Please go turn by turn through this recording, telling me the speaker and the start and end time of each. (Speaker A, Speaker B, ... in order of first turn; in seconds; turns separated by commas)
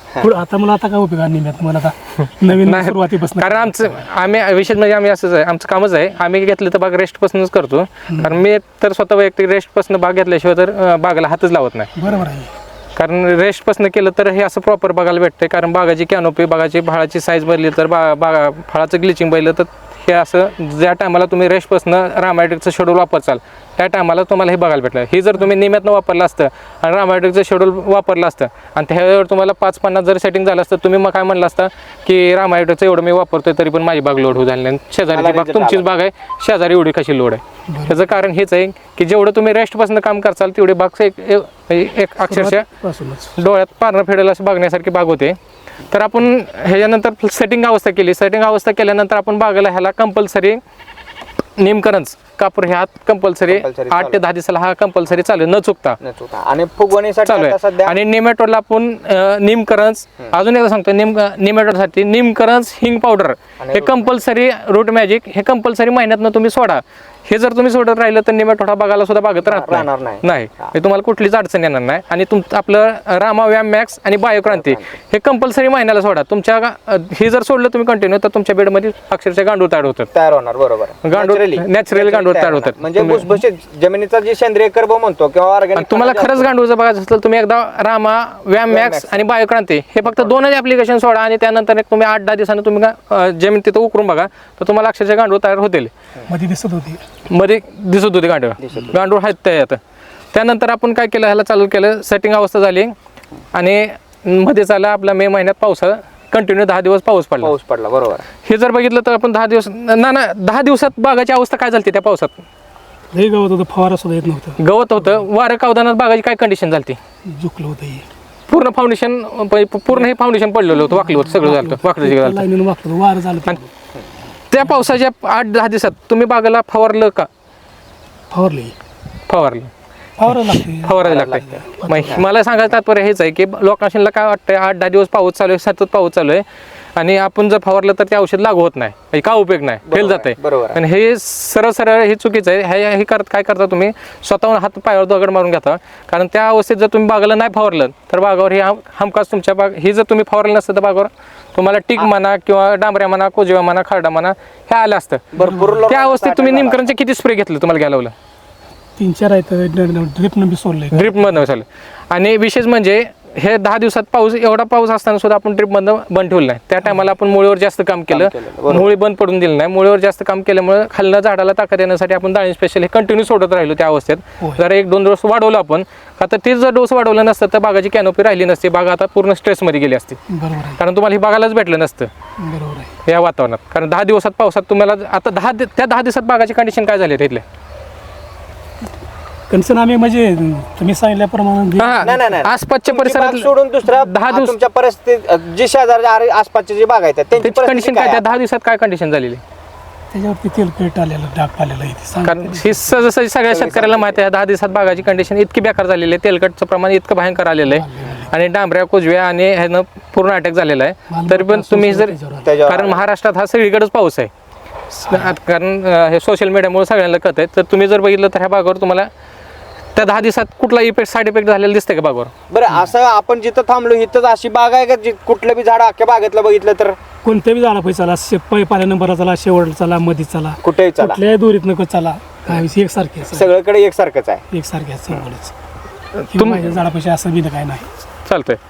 Speaker A: 0.2-4.0, Speaker B: 2.4-11.9, Speaker A: 11.9-12.5, Speaker B: 12.9-42.7, Speaker C: 35.1-35.9, Speaker A: 37.7-38.0, Speaker A: 42.3-43.3, Speaker B: 43.4-45.4, Speaker B: 45.9-50.6, Speaker B: 51.6-56.0, Speaker C: 53.5-54.2, Speaker C: 56.0-58.0, Speaker B: 57.2-80.1, Speaker C: 63.6-64.1, Speaker C: 69.4-70.7, Speaker C: 74.5-74.8, Speaker C: 80.1-86.5, Speaker B: 81.0-83.3, Speaker B: 85.8-95.9, Speaker C: 88.7-89.2, Speaker A: 96.3-97.0, Speaker B: 97.3-99.8, Speaker C: 98.6-99.0, Speaker B: 100.3-102.9, Speaker B: 103.5-107.5, Speaker C: 107.4-108.2, Speaker B: 108.4-112.4, Speaker A: 113.1-115.2, Speaker B: 114.6-117.0, Speaker A: 117.2-118.0, Speaker B: 118.5-122.5, Speaker A: 120.8-123.7, Speaker B: 124.5-127.3, Speaker A: 128.3-128.8, Speaker B: 129.3-129.7, Speaker A: 130.2-132.2, Speaker B: 130.3-136.4, Speaker C: 131.0-132.2, Speaker B: 136.9-158.1, Speaker C: 139.8-140.8, Speaker C: 155.3-156.9, Speaker A: 155.4-155.9, Speaker A: 159.0-161.3, Speaker B: 160.9-180.2, Speaker C: 168.1-168.9, Speaker A: 180.3-180.8, Speaker B: 180.8-182.1, Speaker A: 182.4-182.9, Speaker B: 183.0-187.4, Speaker A: 189.5-192.2, Speaker B: 191.8-194.6, Speaker C: 192.0-198.3, Speaker B: 197.4-199.4, Speaker A: 200.1-202.8, Speaker B: 202.2-214.3, Speaker C: 203.5-204.2, Speaker A: 207.6-208.3, Speaker A: 211.1-212.5, Speaker C: 212.4-213.0, Speaker B: 214.9-219.1, Speaker B: 219.9-222.3, Speaker C: 222.5-227.0, Speaker A: 227.2-233.5, Speaker C: 230.6-231.2, Speaker C: 233.3-234.4, Speaker A: 234.5-235.5, Speaker B: 236.1-236.8, Speaker A: 236.3-237.9, Speaker B: 238.2-238.6